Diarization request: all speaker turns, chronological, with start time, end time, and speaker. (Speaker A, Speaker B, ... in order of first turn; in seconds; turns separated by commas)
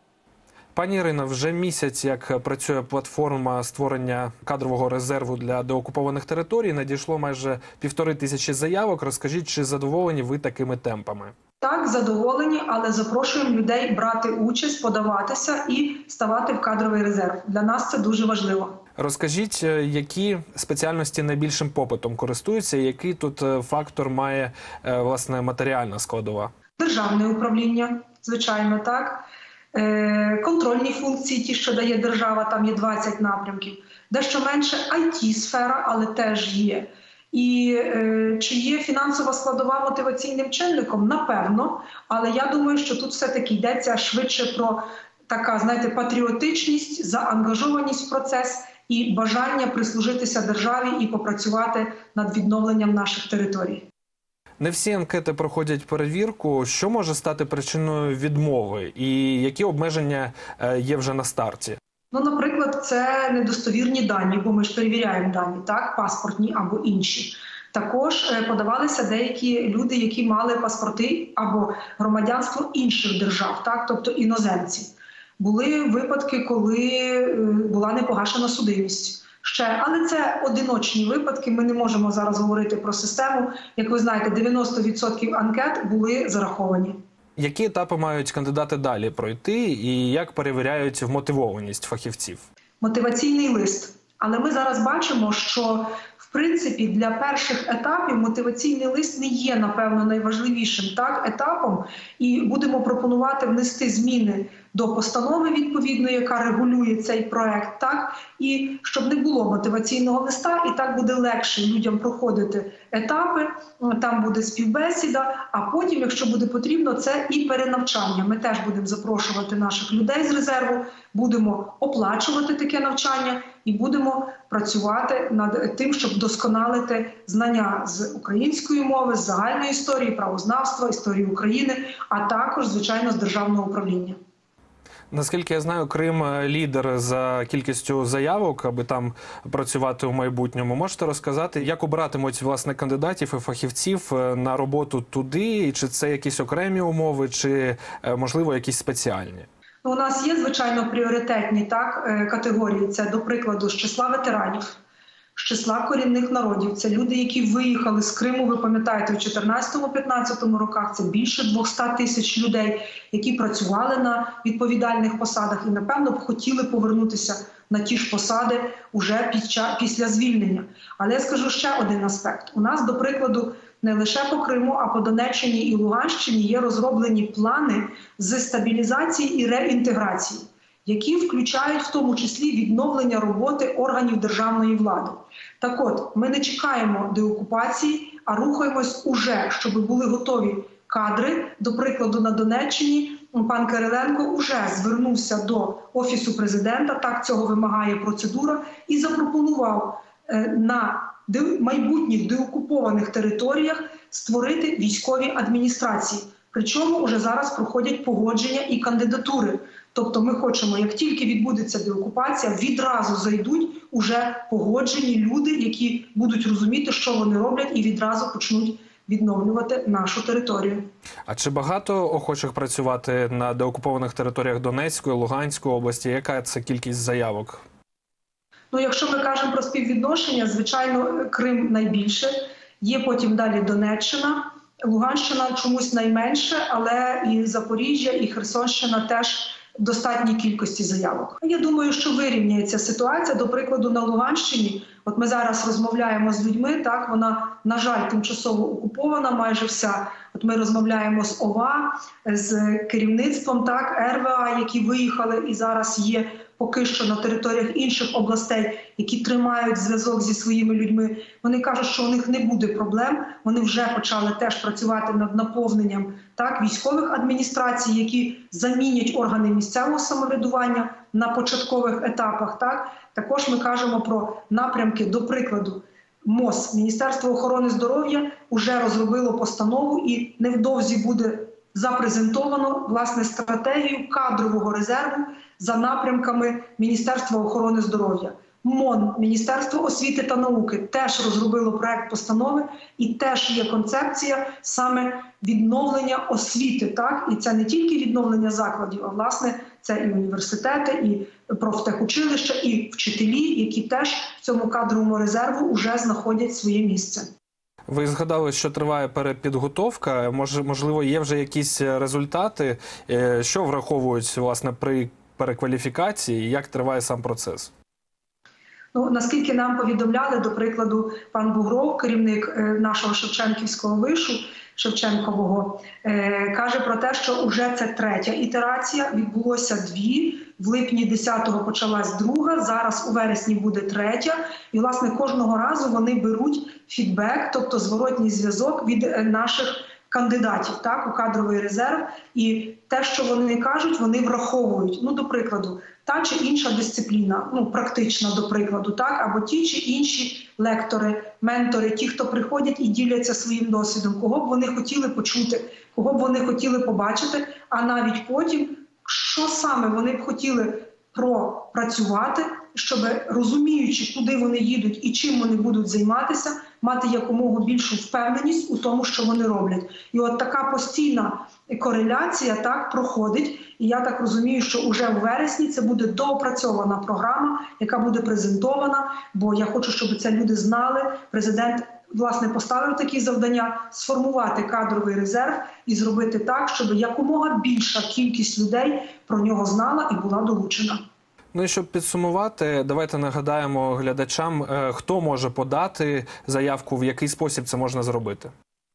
Speaker A: 0.8-11.3, Speaker B: 11.6-18.8, Speaker A: 19.0-26.5, Speaker B: 26.8-53.9, Speaker A: 54.6-61.8, Speaker B: 62.1-87.0, Speaker A: 87.4-92.4, Speaker B: 92.8-134.2, Speaker A: 135.1-149.5, Speaker B: 149.8-154.8, Speaker B: 155.3-220.9, Speaker A: 221.3-227.6, Speaker B: 228.7-307.3, Speaker A: 307.9-317.7, Speaker B: 318.9-391.0, Speaker A: 391.5-398.5